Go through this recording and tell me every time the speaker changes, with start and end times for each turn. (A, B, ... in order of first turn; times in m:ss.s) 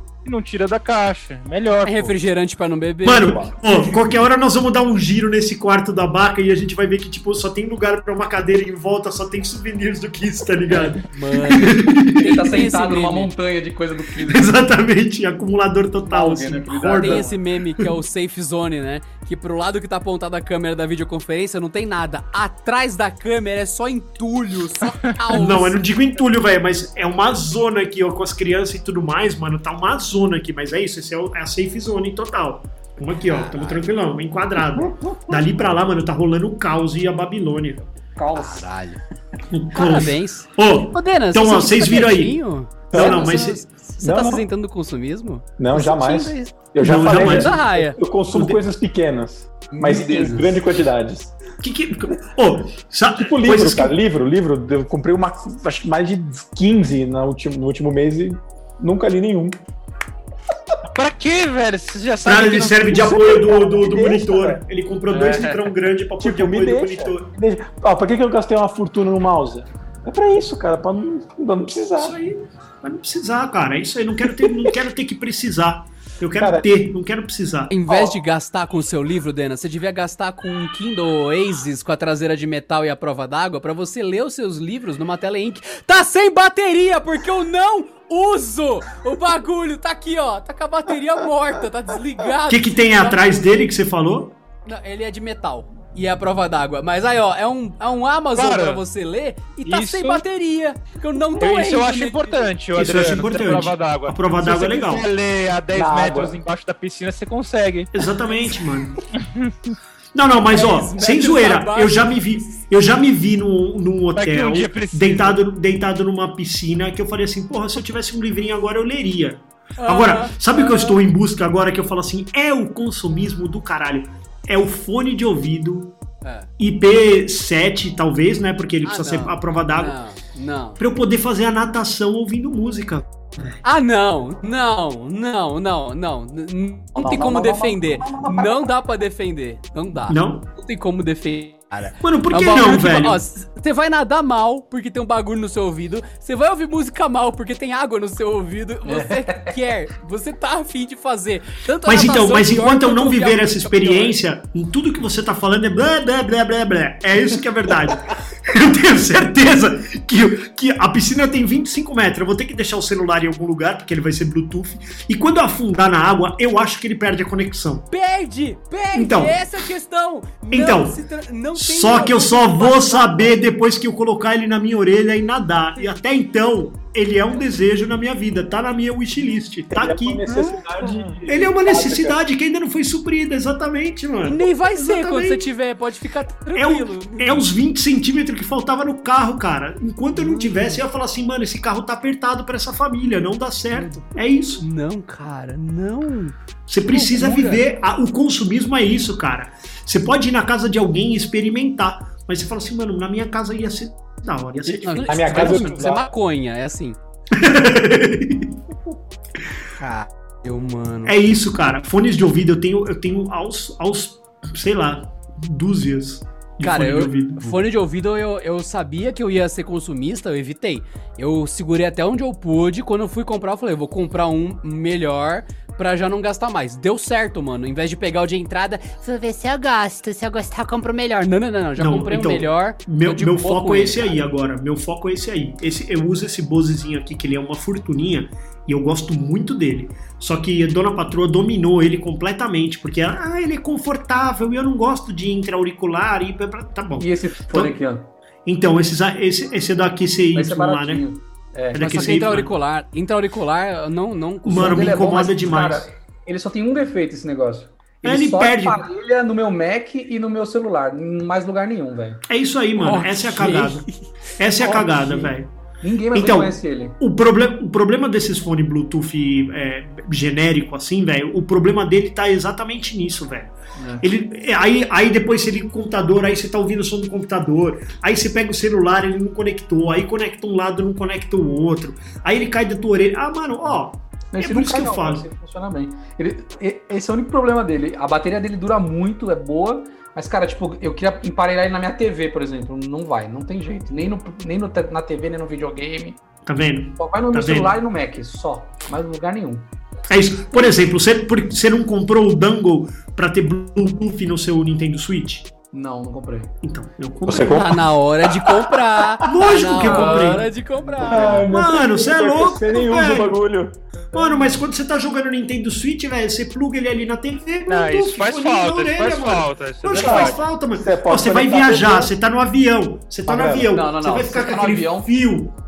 0:00.2-0:02.1 A
0:01.8-0:03.5 B
0:03.0-0:12.3 C
0:10.7-0:11.0 D
0:11.0-0:13.3 B
0:12.1-0:14.6 D
0:14.2-0:17.3 C
0:16.0-0:17.4 D
0:17.0-0:25.8 B
0:25.3-0:37.8 C
0:33.3-0:33.8 B
0:38.2-0:38.7 D
0:38.4-0:39.0 B
0:39.5-0:42.4 C
0:39.7-0:48.0 B
0:42.9-0:43.4 E
0:42.9-0:43.6 C
0:44.0-0:44.5 E
0:45.6-0:51.3 E
0:46.8-0:47.6 C
0:49.7-0:50.6 D
0:51.6-0:53.9 C
0:53.1-0:59.6 E
1:00.9-1:03.1 A
1:02.2-1:07.3 C
1:02.9-1:04.6 E
1:05.2-1:05.5 D
1:06.2-1:12.2 E
1:12.0-1:18.1 C
1:16.4-1:16.7 E
1:17.7-1:33.6 B
1:32.5-1:34.3 C
1:34.6-1:42.5 B
1:38.3-1:38.8 A
1:39.6-1:40.2 A
1:41.4-1:47.9 A
1:42.8-1:45.1 C
1:45.7-1:46.4 E
1:47.9-1:49.0 C
1:49.1-1:49.7 A
1:50.1-2:06.0 C
1:50.5-1:52.2 B
1:54.1-1:55.4 A
1:59.8-2:01.0 B
2:06.2-2:06.5 B
2:06.6-2:09.9 C
2:08.8-2:10.8 B
2:10.8-2:13.6 C
2:13.6-2:34.2 B
2:17.0-2:18.7 D
2:20.1-2:20.4 C
2:22.0-2:23.2 C
2:28.9-2:29.5 D
2:31.8-2:47.9 C
2:47.9-2:53.4 B
2:48.9-2:49.4 C
2:50.5-2:51.0 C
2:51.6-3:00.6 C
2:59.7-3:02.2 E
3:01.3-3:05.4 C
3:04.3-3:07.4 B
3:06.5-3:14.6 C
3:10.1-3:10.8 B
3:13.7-3:14.0 B
3:14.6-3:16.3 B
3:16.7-3:25.7 C
3:16.9-3:17.6 B
3:24.6-3:26.1 E
3:24.8-3:27.0 B
3:27.3-3:28.5 C
3:29.8-3:31.1 B
3:31.0-3:37.6 C
3:36.6-3:54.2 B
3:51.8-4:07.8 C
4:07.0-4:08.1 D
4:08.4-4:11.0 C
4:10.3-4:12.1 D
4:11.7-4:12.5 C
4:11.8-4:14.9 B
4:14.4-4:15.9 C
4:14.5-4:22.2 D
4:18.0-4:18.8 C
4:22.3-4:23.8 C
4:22.8-4:24.0 B
4:24.4-4:25.5 C
4:24.6-4:27.0 D
4:26.1-4:45.2 C
4:33.8-4:34.0 D
4:44.3-4:56.2 D
4:56.4-4:57.7 C
4:57.0-4:59.7 D
5:00.1-5:05.5 C
5:05.7-5:06.5 D
5:06.6-5:07.7 C
5:07.2-5:09.3 E
5:07.3-5:11.5 B
5:09.2-5:10.5 C
5:09.8-5:11.5 D
5:11.0-5:13.8 E
5:11.5-5:13.4 C
5:14.1-5:25.5 C
5:14.2-5:14.6 D
5:17.7-5:20.4 A
5:19.9-5:22.1 E
5:23.2-5:25.1 D